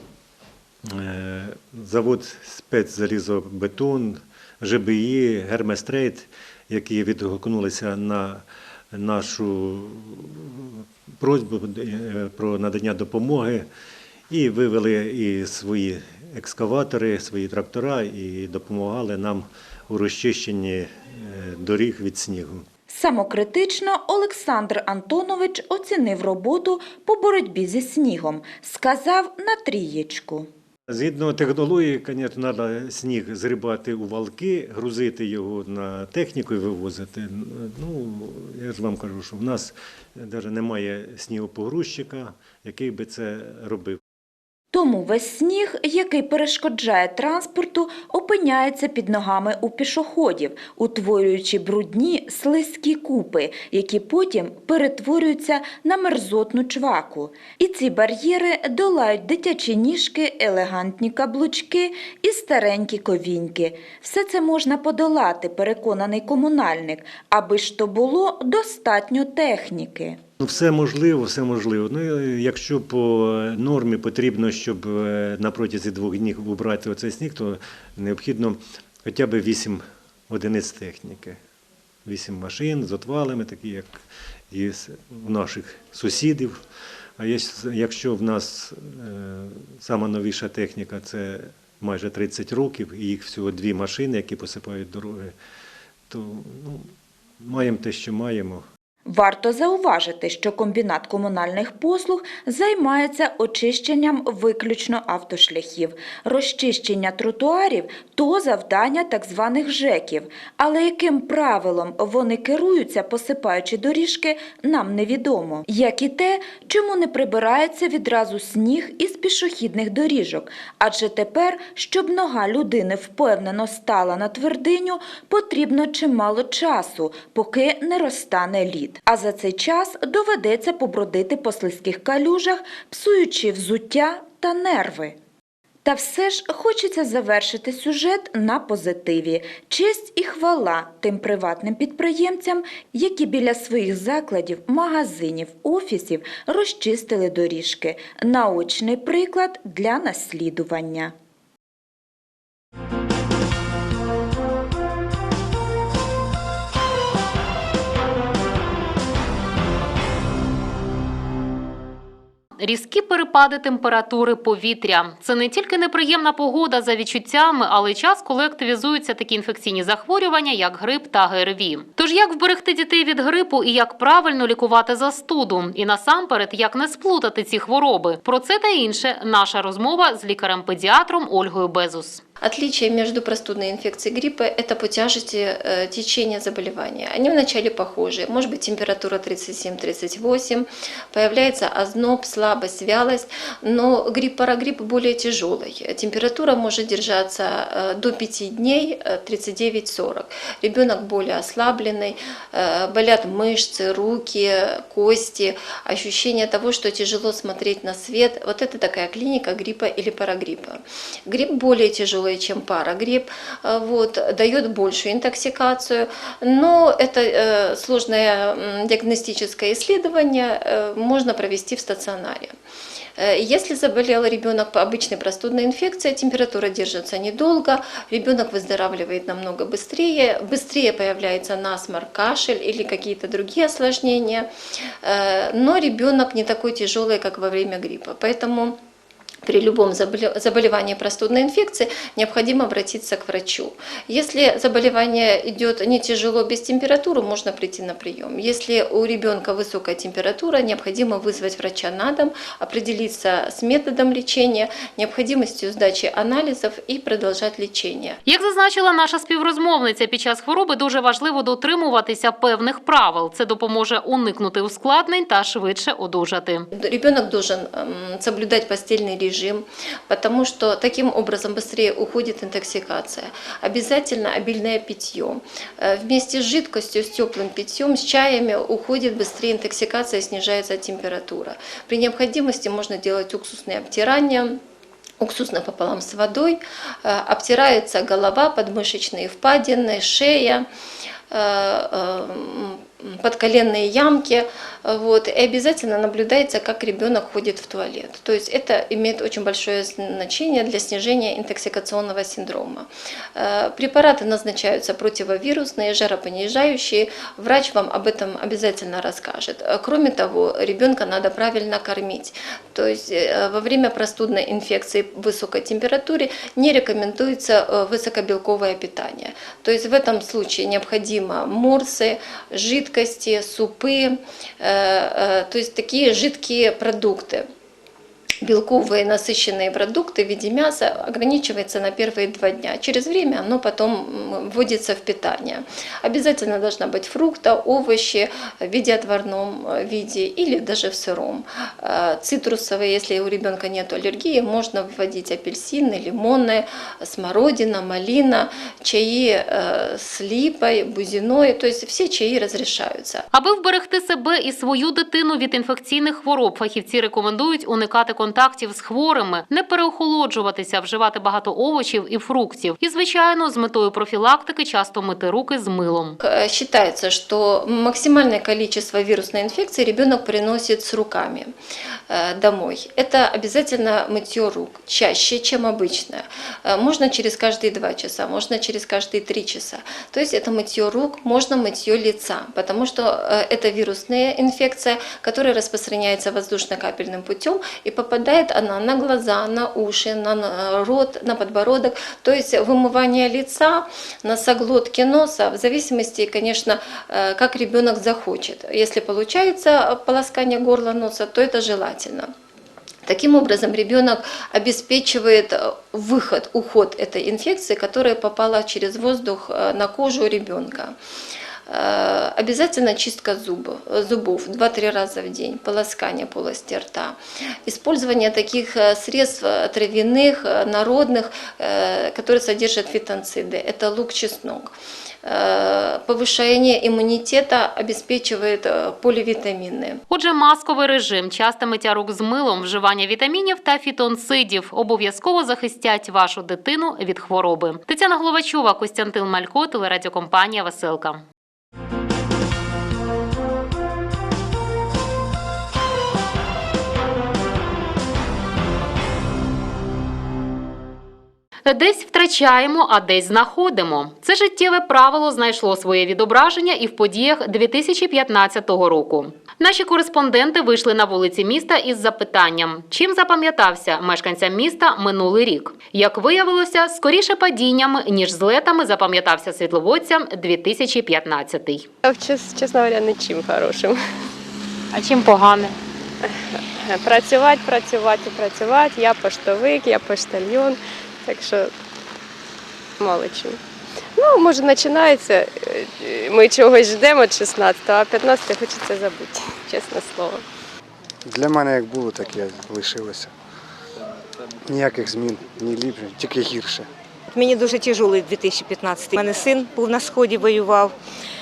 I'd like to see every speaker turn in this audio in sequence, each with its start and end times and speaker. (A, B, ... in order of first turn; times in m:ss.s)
0:00.8-0:13.7 A
0:14.3-0:22.7 A
0:22.9-0:30.5 B
0:30.9-0:44.0 A
0:44.7-1:10.2 B
1:10.4-1:21.4 A
1:22.0-1:26.6 A
1:27.2-1:35.4 A
1:36.1-1:38.7 A
1:39.0-2:15.2 B
2:15.8-2:31.1 B
2:42.6-3:02.2 C
3:02.4-3:42.5 D
3:43.2-3:54.5 D
3:55.0-3:58.8 D
3:59.4-4:18.2 D
4:18.2-4:26.7 C
4:26.8-4:44.6 D
4:45.2-4:50.7 D
4:51.3-5:27.4 D
5:28.4-5:53.2 D
5:53.3-6:06.2 C
6:06.2-6:11.5 D
6:12.1-6:42.3 D
6:43.1-6:51.0 D
6:51.7-7:04.7 D
7:05.2-7:10.0 D
7:10.1-7:21.2 C
7:31.7-7:51.9 C
7:52.0-7:54.0 E
7:54.9-7:55.7 C
7:56.2-8:01.8 E
8:03.0-8:03.6 E
8:04.2-8:10.4 E
8:11.3-8:13.3 F
8:14.7-8:16.9 F
8:17.3-8:20.9 G